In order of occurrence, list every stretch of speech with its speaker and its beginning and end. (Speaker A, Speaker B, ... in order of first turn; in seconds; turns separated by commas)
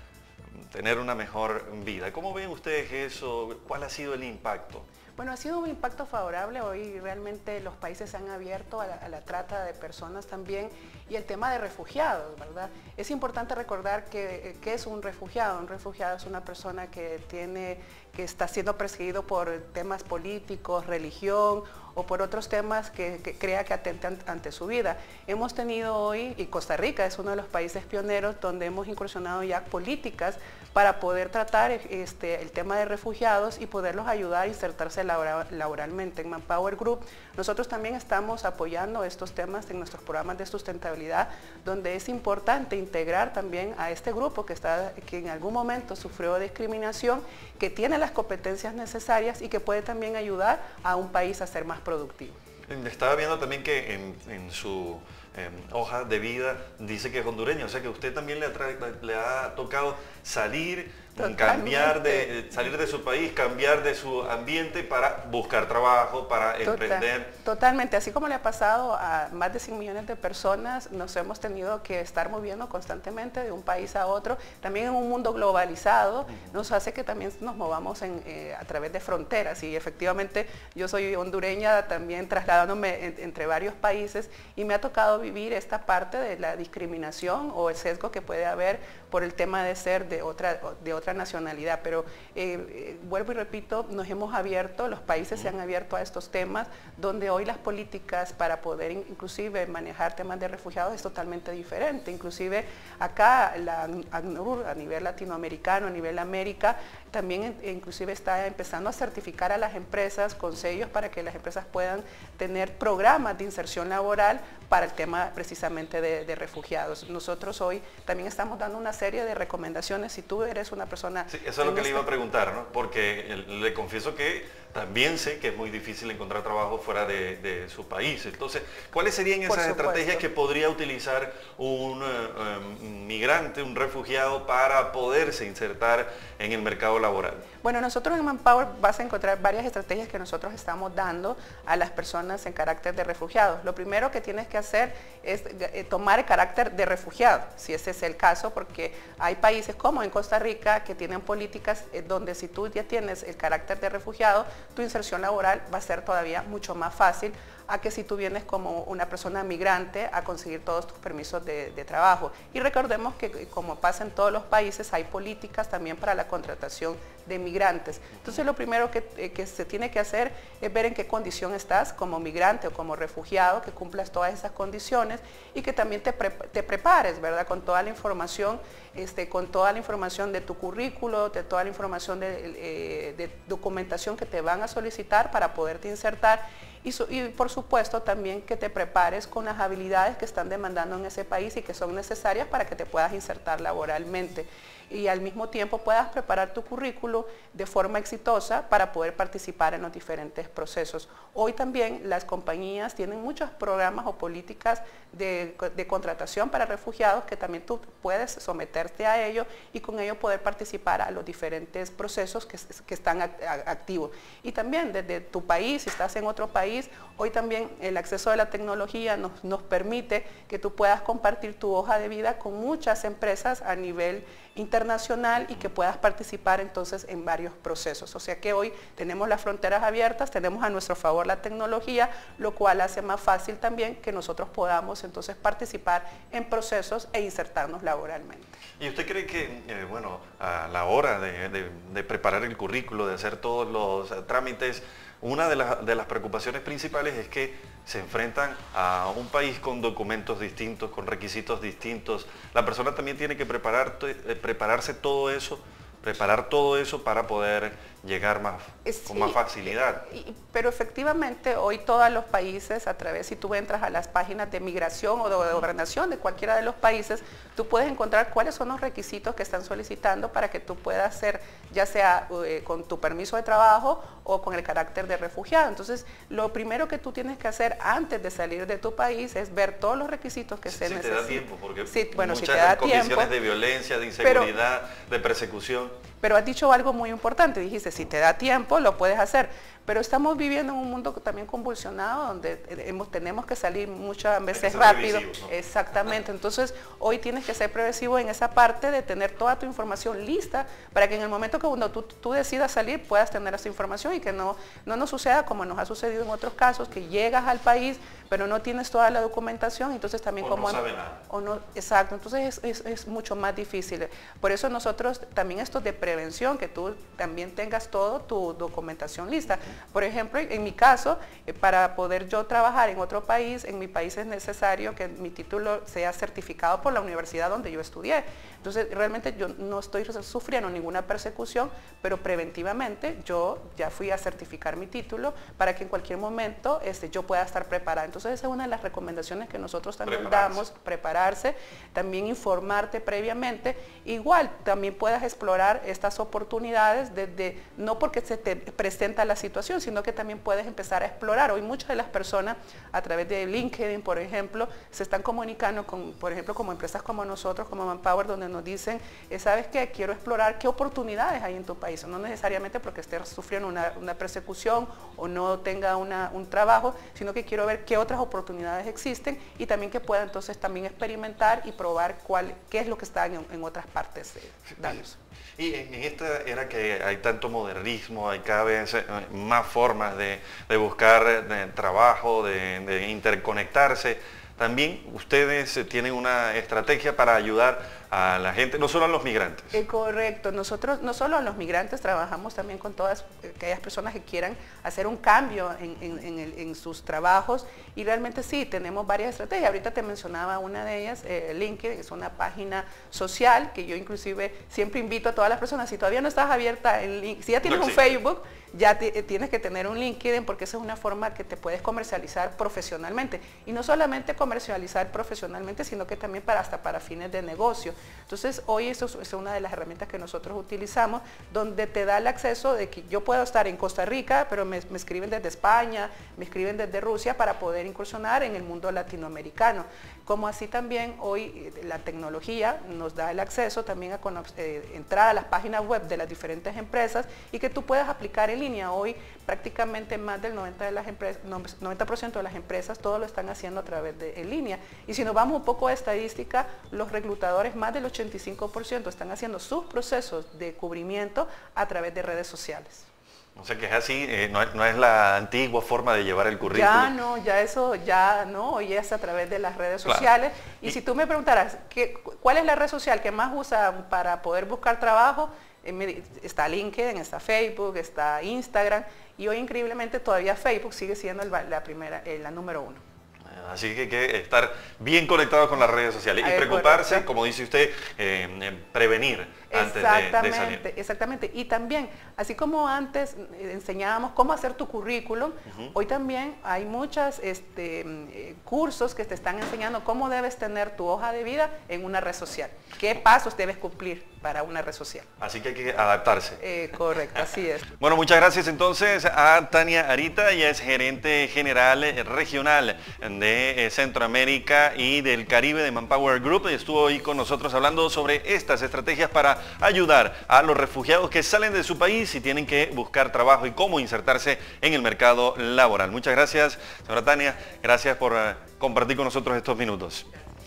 Speaker A: 0.6-4.9, Speaker B: 5.2-52.4, Speaker A: 52.7-67.3, Speaker B: 61.2-62.4, Speaker B: 66.6-122.1, Speaker A: 121.3-137.4, Speaker B: 129.5-130.2, Speaker B: 137.6-238.6, Speaker A: 238.8-260.0, Speaker B: 258.9-283.4, Speaker A: 280.7-285.9, Speaker B: 284.2-284.5, Speaker B: 286.2-375.2, Speaker A: 294.5-295.5, Speaker A: 310.4-311.2, Speaker A: 340.1-340.6, Speaker A: 375.6-389.8, Speaker B: 389.7-453.1, Speaker A: 407.6-408.0, Speaker A: 453.6-457.1, Speaker B: 456.6-473.0, Speaker A: 473.5-480.8, Speaker B: 476.4-477.3, Speaker B: 479.7-495.3, Speaker A: 485.7-485.9, Speaker A: 495.4-496.6, Speaker B: 496.6-497.9, Speaker A: 498.0-520.3